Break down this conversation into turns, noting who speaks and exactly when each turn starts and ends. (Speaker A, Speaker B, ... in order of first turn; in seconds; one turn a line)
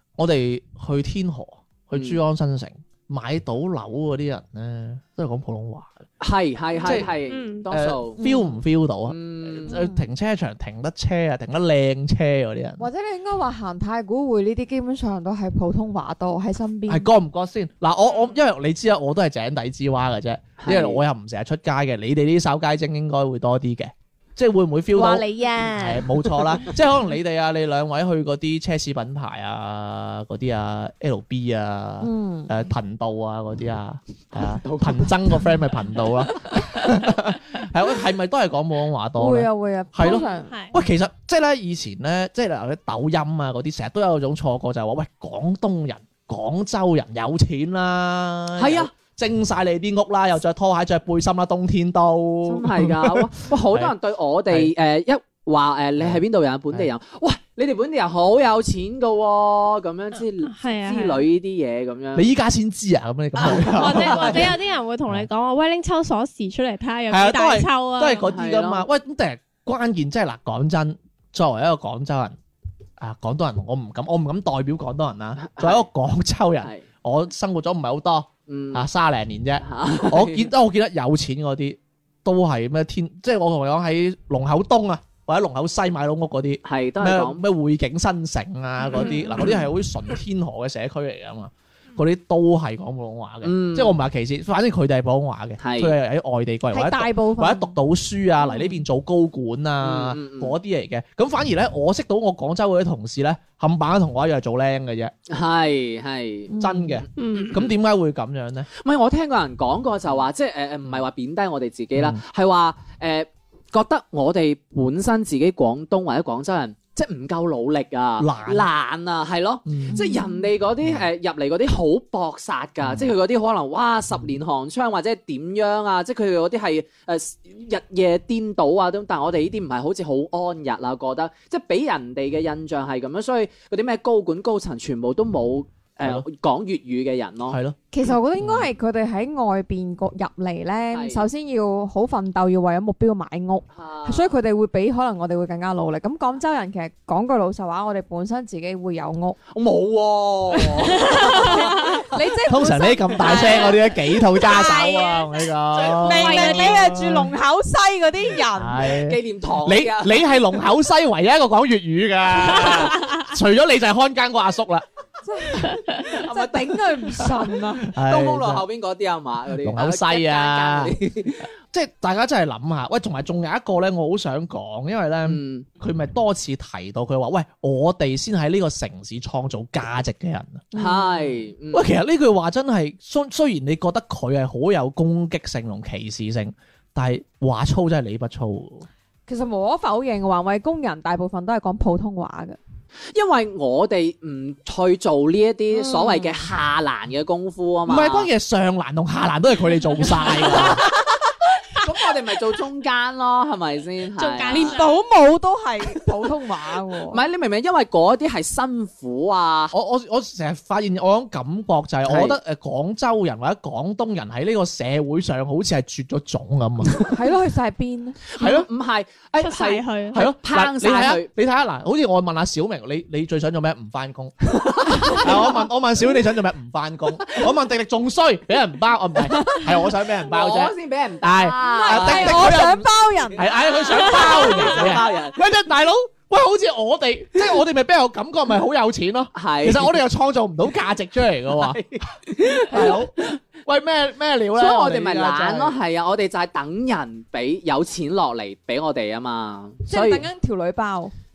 Speaker A: 0.2-6.0
Speaker B: 1.9-2.2
Speaker B: 6.2-8.2
Speaker A: 6.8-7.1
Speaker C: 7.3-7.6
Speaker A: 7.7-12.9
Speaker D: 8.2-8.6
Speaker B: 9.1-9.7
Speaker D: 9.7-10.1
Speaker D: 12.8-17.1
Speaker A: 16.9-53.9
Speaker B: 20.6-21.0
Speaker D: 24.9-26.0
Speaker D: 32.0-32.6
Speaker B: 34.3-35.4
Speaker D: 39.2-40.5
Speaker C: 40.0-40.8
Speaker B: 48.6-48.9
Speaker B: 52.4-62.3
Speaker A: 56.0-56.9
Speaker C: 60.4-61.2
Speaker A: 62.1-64.5
Speaker B: 63.4-64.5
Speaker C: 63.7-68.3
Speaker A: 67.1-72.3
Speaker B: 68.2-68.8
Speaker A: 73.0-105.1
Speaker B: 75.4-75.8
Speaker B: 78.5-78.8
Speaker B: 79.6-80.5
Speaker B: 86.6-87.4
Speaker B: 93.4-94.0
Speaker B: 95.6-95.9
Speaker D: 96.7-97.8
Speaker B: 99.8-100.5
Speaker B: 105.3-106.5
Speaker D: 106.5-107.0
Speaker A: 106.6-108.7
Speaker C: 107.2-107.5
Speaker B: 107.3-107.7
Speaker B: 108.8-137.6
Speaker A: 111.9-112.2
Speaker A: 118.2-118.7
Speaker A: 119.7-120.0
Speaker D: 120.0-120.4
Speaker A: 122.8-123.1
Speaker A: 136.0-136.2
Speaker A: 137.5-138.7
Speaker D: 137.9-149.4
Speaker B: 140.9-141.2
Speaker B: 143.7-144.3
Speaker B: 149.5-152.0
Speaker D: 150.8-155.1
Speaker C: 151.2-151.4
Speaker A: 152.4-157.3
Speaker C: 153.3-153.7
Speaker C: 154.5-155.3
Speaker D: 155.8-158.8
Speaker C: 155.8-157.0
Speaker A: 158.5-164.8
Speaker B: 158.9-160.2
Speaker D: 165.2-167.9
Speaker B: 166.1-166.8
Speaker A: 167.3-168.6
Speaker B: 167.9-171.5
Speaker A: 169.6-171.0
Speaker A: 171.7-180.7
Speaker B: 175.2-175.7
Speaker D: 180.7-181.4
Speaker B: 180.8-181.9
Speaker A: 181.7-188.9
Speaker D: 189.3-192.6
Speaker B: 193.1-198.3
Speaker D: 195.7-196.4
Speaker A: 197.9-200.8
Speaker B: 200.3-200.8
Speaker B: 201.7-204.8
Speaker C: 204.2-205.0
Speaker D: 204.5-207.2
Speaker B: 207.1-209.7
Speaker A: 209.7-217.1
Speaker B: 212.0-212.4
Speaker D: 217.1-218.2
Speaker B: 218.3-221.3
Speaker A: 218.4-218.7
Speaker C: 219.4-220.2
Speaker A: 220.1-241.8
Speaker B: 224.5-225.3
Speaker D: 225.1-225.6
Speaker B: 230.2-232.6
Speaker D: 231.4-233.4
Speaker B: 233.4-235.4
Speaker B: 239.3-240.0
Speaker B: 241.5-243.3
Speaker A: 242.7-245.8
Speaker B: 244.6-250.3
Speaker D: 249.9-251.1